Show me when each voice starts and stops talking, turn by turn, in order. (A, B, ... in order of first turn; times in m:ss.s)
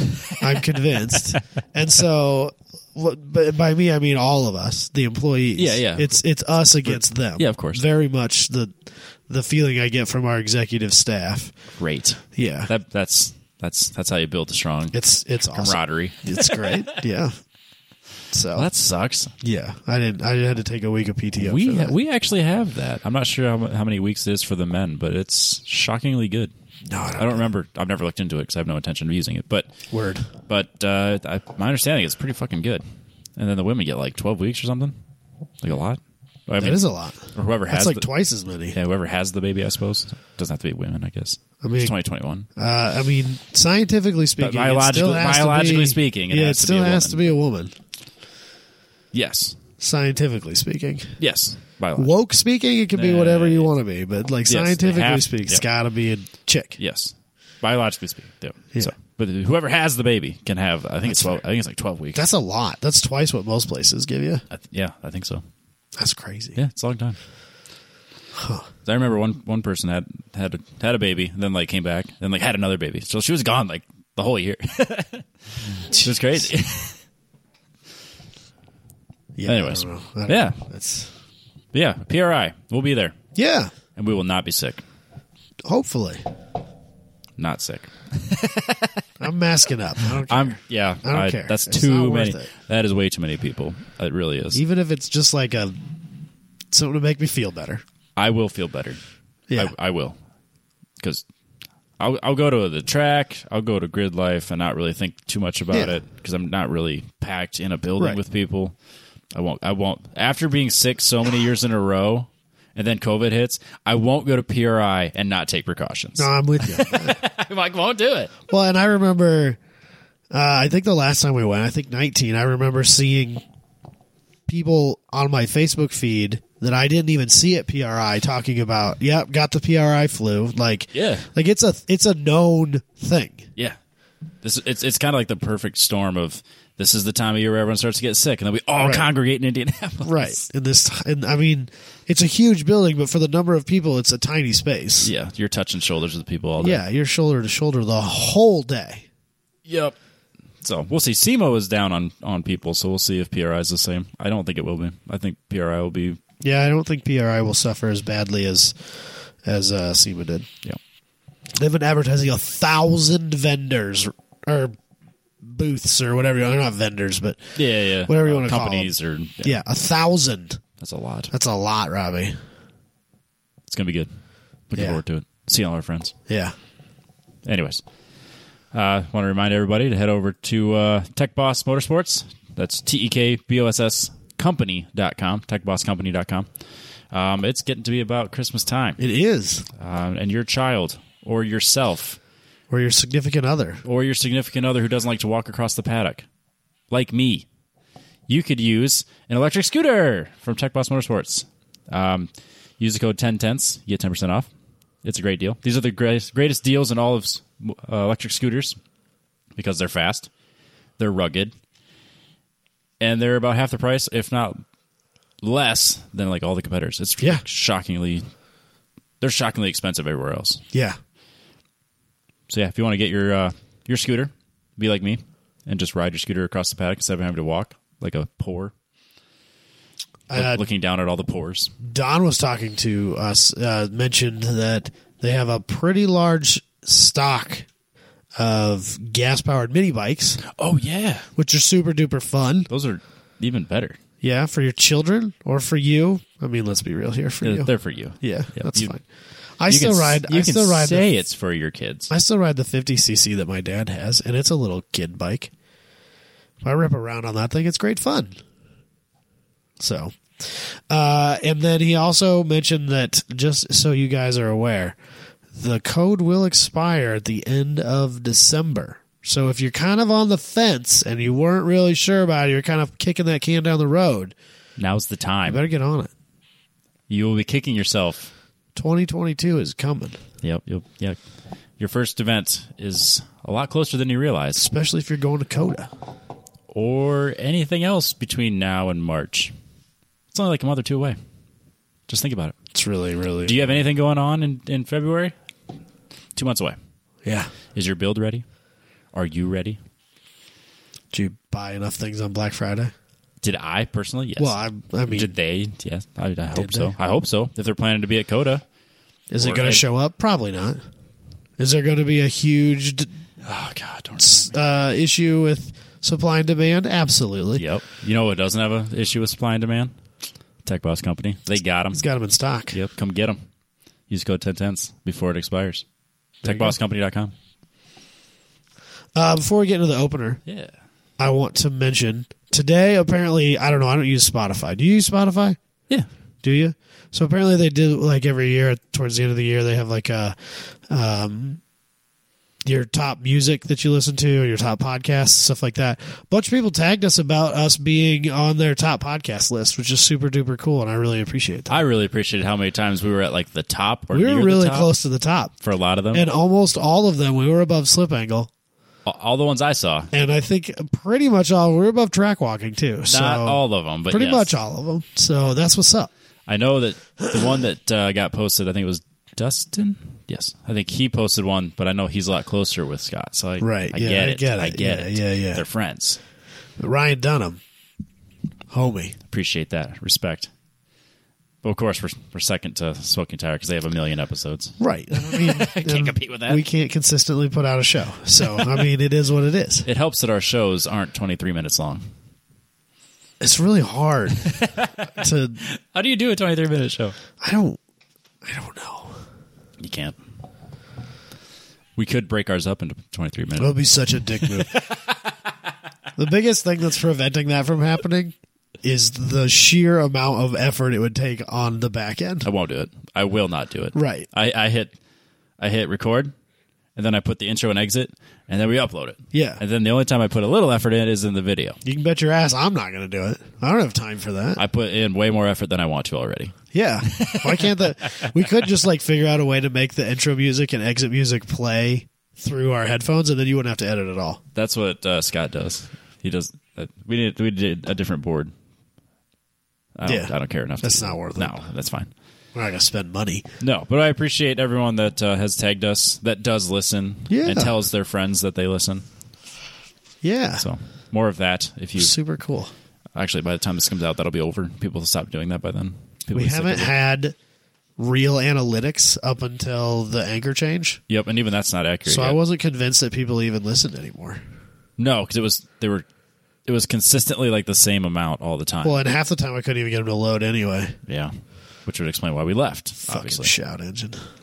0:00.1-0:01.4 A
0:00.3-0:11.5 B
0:05.6-0:06.2 A
0:06.8-0:07.8 A
0:11.8-0:15.0 A
0:12.3-0:12.7 B
0:14.9-0:17.3 B
0:15.5-0:17.0 A
0:18.3-0:18.7 B
0:18.5-0:19.3 A
0:19.4-0:21.9 B
0:21.4-0:26.5 A
0:26.9-0:27.5 B
0:27.2-0:29.7 A
0:29.9-0:30.3 B
0:30.5-0:32.8 A
0:33.4-0:35.0 A
0:35.6-0:38.1 A
0:36.6-0:38.8 B
0:38.7-0:42.5 A
0:41.6-0:41.9 B
0:42.6-0:47.7 B
0:44.4-0:47.3 A
0:49.1-0:49.6 A
0:49.8-0:51.2 B
0:51.2-0:52.1 A
0:52.0-0:56.8 B
0:52.9-0:53.7 A
0:54.4-0:55.6 A
0:56.8-1:02.2 A
1:01.0-1:01.4 B
1:02.1-1:04.4 B
1:04.5-1:05.4 A
1:06.0-1:06.6 B
1:06.6-1:07.2 A
1:08.3-1:08.7 B
1:08.8-1:17.0 A
1:19.3-1:21.1 B
1:19.4-1:20.6 A
1:21.7-1:23.2 A
1:23.3-1:23.7 B
1:23.9-1:24.8 A
1:25.6-1:26.2 B
1:27.4-1:29.0 A
1:29.2-1:32.5 B
1:30.1-1:34.6 A
1:34.5-1:36.0 B
1:36.7-1:37.8 B
1:38.2-1:39.0 A
1:39.5-1:40.2 A
1:42.0-1:48.8 A
1:49.3-1:58.3 A
1:56.2-1:57.2 B
1:58.5-1:59.6 B
2:00.3-2:03.4 B
2:04.5-2:13.5 B
2:10.9-2:11.2 A
2:14.4-2:20.4 A
2:18.8-2:19.1 B
2:20.0-2:25.1 B
2:25.0-2:26.8 A
2:26.6-2:29.0 B
2:29.6-2:29.9 A
2:30.6-2:36.2 A
2:36.4-2:40.5 B
2:41.6-2:44.7 B
2:45.4-2:50.6 B
2:47.6-2:49.6 A
2:50.8-2:51.3 A
2:51.3-2:52.3 B
2:53.7-2:54.1 A
2:54.7-2:56.1 A
2:54.7-2:55.0 B
2:56.3-2:56.5 B
2:57.4-2:57.8 A
2:58.7-3:06.5 A
3:07.1-3:09.0 A
3:09.0-3:09.7 B
3:09.8-3:12.2 A
3:12.7-3:13.8 B
3:13.8-3:16.3 A
3:16.9-3:17.4 A
3:18.3-3:24.5 A
3:25.0-3:28.8 A
3:29.6-3:30.3 A
3:31.0-3:31.5 A
3:33.0-3:34.6 A
3:35.4-3:38.2 A
3:39.2-3:40.6 A
3:40.7-3:41.0 B
3:42.5-3:48.7 A
3:50.3-3:50.6 B
3:50.3-3:51.7 A
3:51.8-3:57.7 B
3:58.4-4:00.4 B
4:00.4-4:01.3 A
4:01.4-4:02.7 B
4:02.7-4:04.0 A
4:04.2-4:07.7 B
4:07.4-4:09.0 A
4:08.2-4:09.0 B
4:09.6-4:11.1 B
4:09.7-4:12.1 A
4:12.1-4:15.5 B
4:16.6-4:18.3 B
4:19.8-4:25.0 B
4:25.5-4:34.3 B
4:34.8-4:35.6 A
4:35.5-4:36.1 B
4:37.1-4:38.3 A
4:38.8-4:40.2 B
4:40.4-4:41.2 A
4:41.8-4:44.6 A
4:44.6-4:45.9 B
4:46.7-4:49.5 A
4:50.3-4:51.2 A
4:52.1-4:52.5 A
4:52.7-4:53.6 B
4:53.4-4:55.3 A
4:56.4-4:56.8 A
4:57.2-4:57.5 B
4:57.7-4:58.4 A
4:59.1-4:59.8 A
5:01.1-5:02.9 B
5:03.4-5:08.6 A
5:04.4-5:05.3 B
5:06.5-5:07.0 B
5:09.3-5:10.8 B
5:09.4-5:09.8 A
5:11.6-5:13.1 B
5:13.4-5:14.5 A
5:14.2-5:17.6 B
5:17.6-5:19.9 A
5:20.6-5:22.0 A
5:21.9-5:22.7 B
5:22.7-5:23.4 A
5:24.1-5:25.8 A
5:26.4-5:27.3 A
5:26.4-5:26.7 B
5:29.1-5:30.4 B
5:30.5-5:30.7 A
5:31.2-5:35.6 B
5:36.4-5:41.6 B
5:42.6-5:51.8 B
5:51.7-5:54.9 A
5:54.1-5:55.5 B
5:55.6-5:56.3 A
5:56.1-5:58.5 B
5:59.0-6:00.1 A
6:00.1-6:06.1 B
6:03.1-6:04.6 A
6:06.5-6:16.2 A
6:13.6-6:15.6 B
6:16.8-6:17.6 B
6:18.7-6:19.2 B
6:19.3-6:20.5 A
6:21.6-6:26.6 A
6:24.8-6:29.8 B
6:28.4-6:28.8 A
6:29.8-6:32.0 A
6:33.4-6:34.6 B
6:34.3-6:35.1 A
6:35.1-6:35.6 B
6:35.6-6:37.2 A
6:37.4-6:37.8 B
6:38.4-6:39.2 B
6:39.8-6:40.2 A
6:42.0-6:45.3 A
6:43.6-6:44.8 B
6:46.2-6:52.4 B
6:52.4-6:54.9 A
6:53.9-6:54.3 B
6:55.6-6:56.3 A
6:57.0-7:01.8 A
6:59.3-6:59.6 B
7:01.8-7:04.6 B
7:04.6-7:08.3 A
7:06.7-7:14.4 B
7:14.5-7:18.5 A
7:20.0-7:22.1 A
7:20.0-7:21.6 B
7:22.5-7:23.5 B
7:23.6-7:29.0 A
7:27.3-7:27.7 B
7:30.2-7:30.6 B
7:30.6-7:32.1 A
7:32.0-7:32.7 B
7:33.1-7:36.9 A
7:36.3-7:37.3 B
7:38.0-7:41.0 B
7:41.1-7:42.4 A
7:42.0-7:44.4 B
7:45.0-7:46.0 A
7:46.6-7:49.0 A
7:48.8-7:51.0 B
7:51.1-7:51.3 A
7:51.8-7:53.5 A
7:53.1-7:54.2 B